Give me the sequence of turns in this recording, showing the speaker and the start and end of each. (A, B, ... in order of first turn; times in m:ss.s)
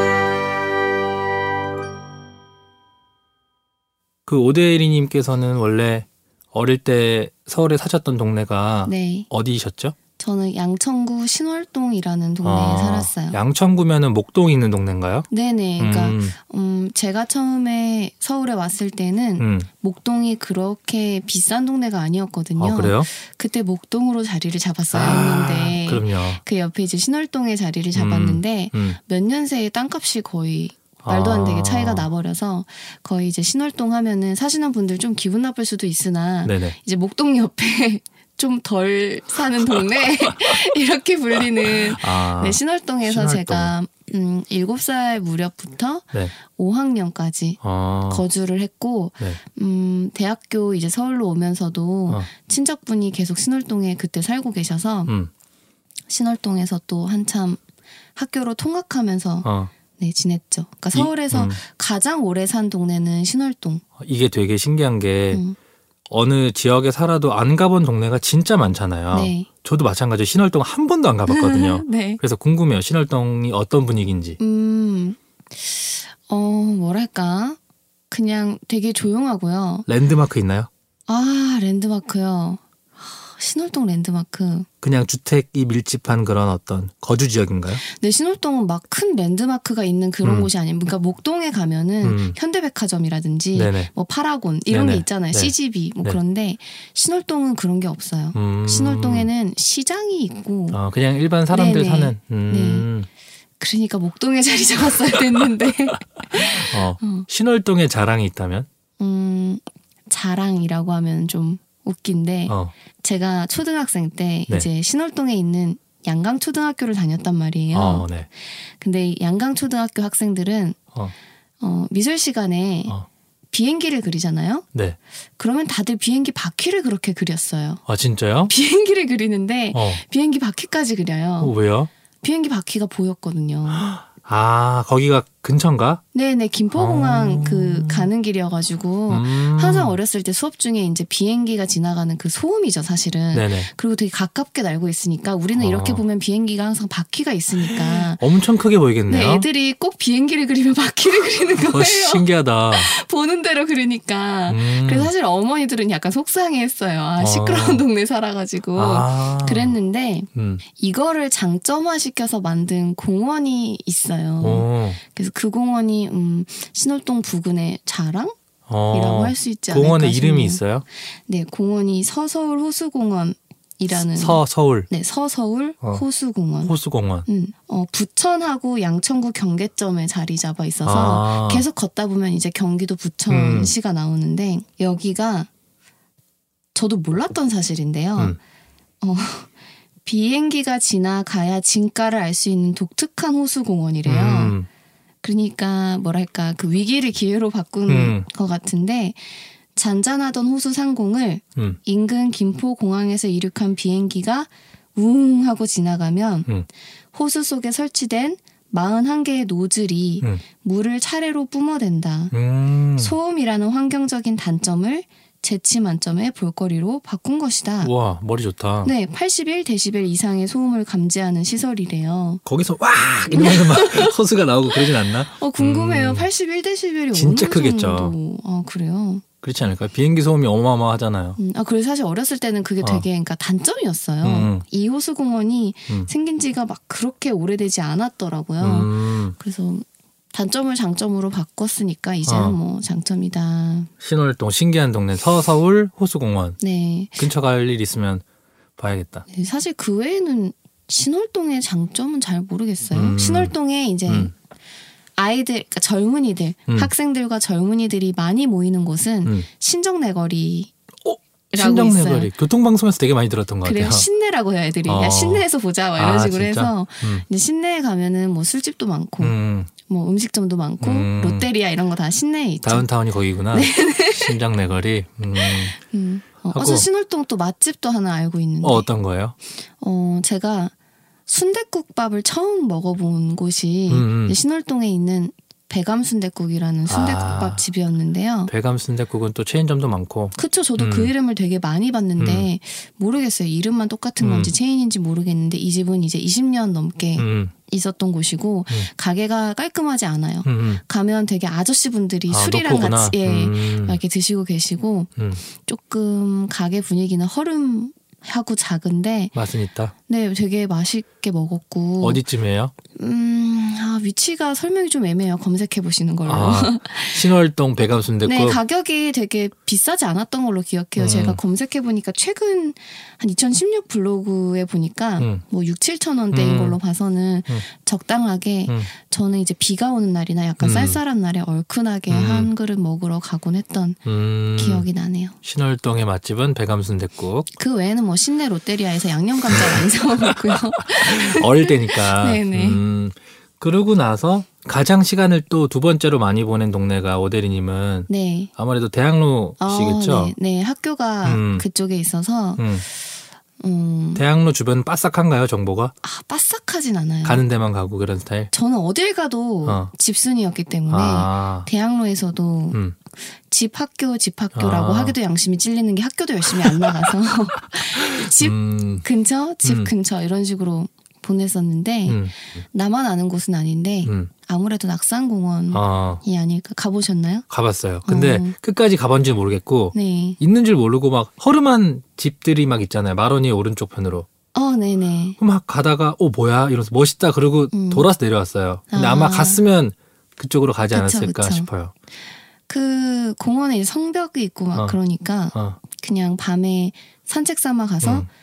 0:04.3-0:10.0 A
0:08.9-0:09.3 B
0:10.2-0:13.4 B
0:12.4-0:16.4 A
0:15.3-0:55.1 B
0:19.4-0:19.7 A
0:22.6-0:23.1 A
0:24.9-0:26.4 A
0:28.0-0:29.0 A
0:31.0-0:32.1 A
0:36.4-0:36.8 A
0:41.7-0:43.7 A
0:47.6-0:48.2 A
0:56.1-0:57.6 B
0:58.2-1:03.8 B
0:59.4-0:59.7 A
1:00.9-1:01.6 A
1:04.0-1:05.4 A
1:06.1-1:14.4 A
1:09.1-1:09.5 B
1:11.3-1:12.2 B
1:14.4-1:17.6 B
1:18.1-1:19.9 B
1:19.9-1:20.7 A
1:21.1-1:24.7 B
1:24.8-1:27.8 A
1:27.8-1:40.8 B
1:30.2-1:30.5 A
1:32.0-1:32.4 A
1:33.6-1:33.9 A
1:34.7-1:36.2 A
1:38.4-1:39.3 A
1:40.7-1:43.1 A
1:41.5-1:42.9 B
1:43.6-1:47.3 B
1:46.3-1:48.7 A
1:49.0-1:58.1 B
1:57.7-1:58.3 A
1:58.8-2:00.8 B
2:01.6-2:03.0 B
2:03.5-2:04.6 B
2:05.4-2:07.8 B
2:07.9-2:08.5 A
2:08.5-2:11.5 B
2:09.7-2:10.0 A
2:11.4-2:11.9 A
2:12.2-2:13.9 B
2:13.7-2:16.0 A
2:16.1-2:28.2 B
2:16.8-2:18.1 A
2:19.1-2:20.0 A
2:23.3-2:23.7 A
2:25.6-2:26.0 A
2:27.6-2:29.5 A
2:29.1-2:48.4 B
2:31.6-2:32.9 A
2:34.5-2:35.1 A
2:37.2-2:37.8 A
2:38.8-2:39.8 A
2:40.3-2:40.6 A
2:44.4-2:45.0 A
2:48.7-2:50.8 A
2:48.9-2:56.7 B
2:53.9-2:54.9 A
2:56.6-2:57.3 A
2:57.3-3:05.5 B
3:00.8-3:01.6 A
3:03.3-3:03.7 A
3:06.8-3:08.4 B
3:09.0-3:09.5 B
3:10.0-3:14.6 B
3:14.0-3:14.7 A
3:15.2-3:26.5 B
3:17.9-3:18.3 A
3:27.1-3:32.3 B
3:32.3-3:33.1 A
3:33.0-3:37.9 B
3:37.8-3:38.9 A
3:38.8-3:42.4 B
3:42.4-3:46.3 A
3:43.3-3:44.2 B
3:44.7-3:49.2 B
3:47.1-3:48.1 A
3:49.4-3:51.4 A
3:51.4-4:03.9 B
3:54.2-3:54.6 A
3:58.6-3:59.4 A
4:02.3-4:02.6 A
4:04.0-4:06.6 A
4:06.6-4:07.3 B
4:07.2-4:08.2 A
4:08.8-4:09.3 A
4:09.3-4:14.3 B
4:12.9-4:13.5 A
4:15.2-4:20.7 B
4:21.0-4:24.1 A
4:21.5-4:22.3 B
4:23.6-4:32.9 B
4:24.9-4:25.4 A
4:26.0-4:27.2 A
4:29.2-4:29.7 A
4:30.8-4:31.5 A
4:32.6-4:35.8 A
4:33.5-4:34.4 B
4:35.4-4:38.9 B
4:36.5-4:36.9 A
4:38.6-4:39.4 A
4:39.8-4:40.7 B
4:41.3-4:48.5 B
4:43.9-4:44.4 A
4:46.9-4:47.6 A
4:48.5-4:51.1 A
4:50.4-5:09.4 B
4:52.2-4:52.5 A
4:54.2-4:54.5 A
4:57.2-4:57.5 A
5:00.4-5:00.8 A
5:02.3-5:04.0 A
5:09.3-5:09.9 A
5:10.1-5:12.2 B
5:12.0-5:12.7 A
5:13.0-5:17.3 B
5:16.3-5:18.6 A
5:18.2-5:34.0 B
5:21.0-5:21.4 A
5:26.3-5:26.8 A
5:30.6-5:31.0 A
5:32.1-5:32.5 A
5:34.1-5:34.9 A
5:34.6-5:35.4 B
5:35.4-5:37.5 A
5:37.6-5:42.8 B
5:39.5-5:39.8 A
5:41.0-5:50.4 A
5:48.1-5:48.5 B
5:49.6-5:52.7 B
5:51.2-5:51.7 A
5:52.6-5:52.8 A
5:53.6-5:54.2 B
5:54.2-5:55.9 A
5:56.0-5:57.4 B
5:57.2-5:58.5 A
5:58.5-6:02.8 B
5:59.7-5:59.9 A
6:00.9-6:01.7 A
6:03.5-6:17.4 B
6:04.6-6:05.2 A
6:06.6-6:07.0 A
6:08.0-6:09.0 A
6:09.6-6:09.9 A
6:12.1-6:12.3 A
6:14.0-6:14.3 A
6:15.7-6:16.2 A
6:17.5-6:24.3 A
6:18.0-6:18.6 B
6:19.9-6:20.4 B
6:24.5-6:25.4 B
6:25.4-6:31.9 A
6:27.7-6:28.1 B
6:28.9-6:29.6 B
6:30.9-6:31.7 B
6:32.7-6:38.3 B
6:35.5-6:35.8 A
6:38.0-6:38.3 A